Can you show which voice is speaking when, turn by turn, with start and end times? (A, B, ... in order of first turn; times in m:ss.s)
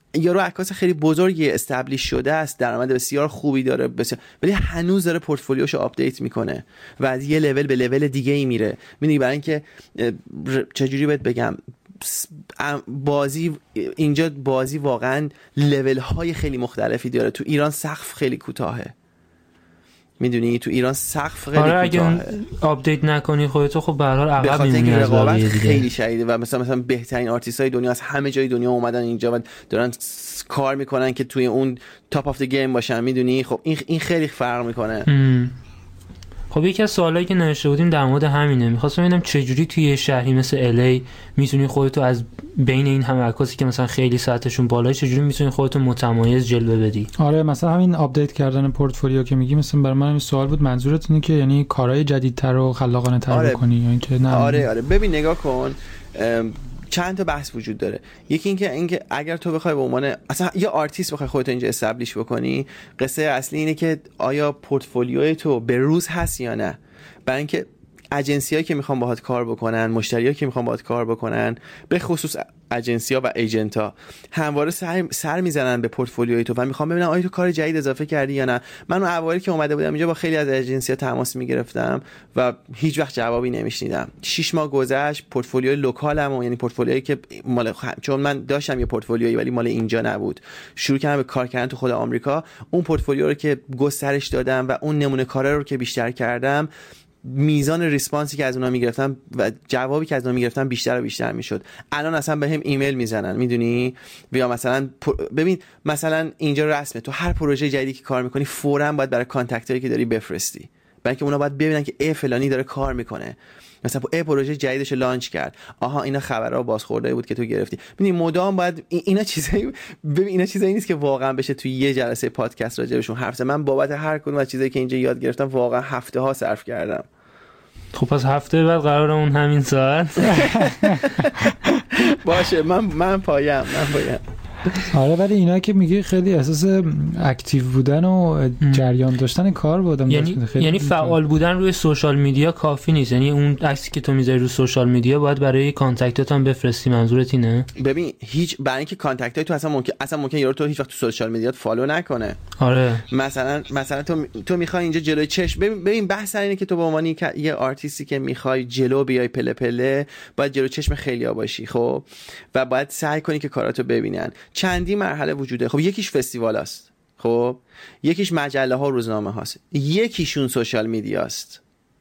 0:00.1-0:18.9 A
0:20.2-0:22.3 A
0:21.5-0:25.8 B
0:24.4-0:35.1 A
0:35.1-0:35.5 B
0:36.5-0:47.1 B
0:47.2-0:54.7 C
0:53.3-0:53.6 A
0:54.3-1:36.7 A
1:37.2-2:07.0 A
2:07.9-2:10.7 B
2:10.4-2:11.0 C
2:10.9-2:11.3 A
2:11.9-2:14.8 A
2:14.9-2:21.2 C
2:20.1-2:27.7 B
2:27.8-2:32.4 A
2:32.6-2:33.0 B
2:33.1-2:51.6 A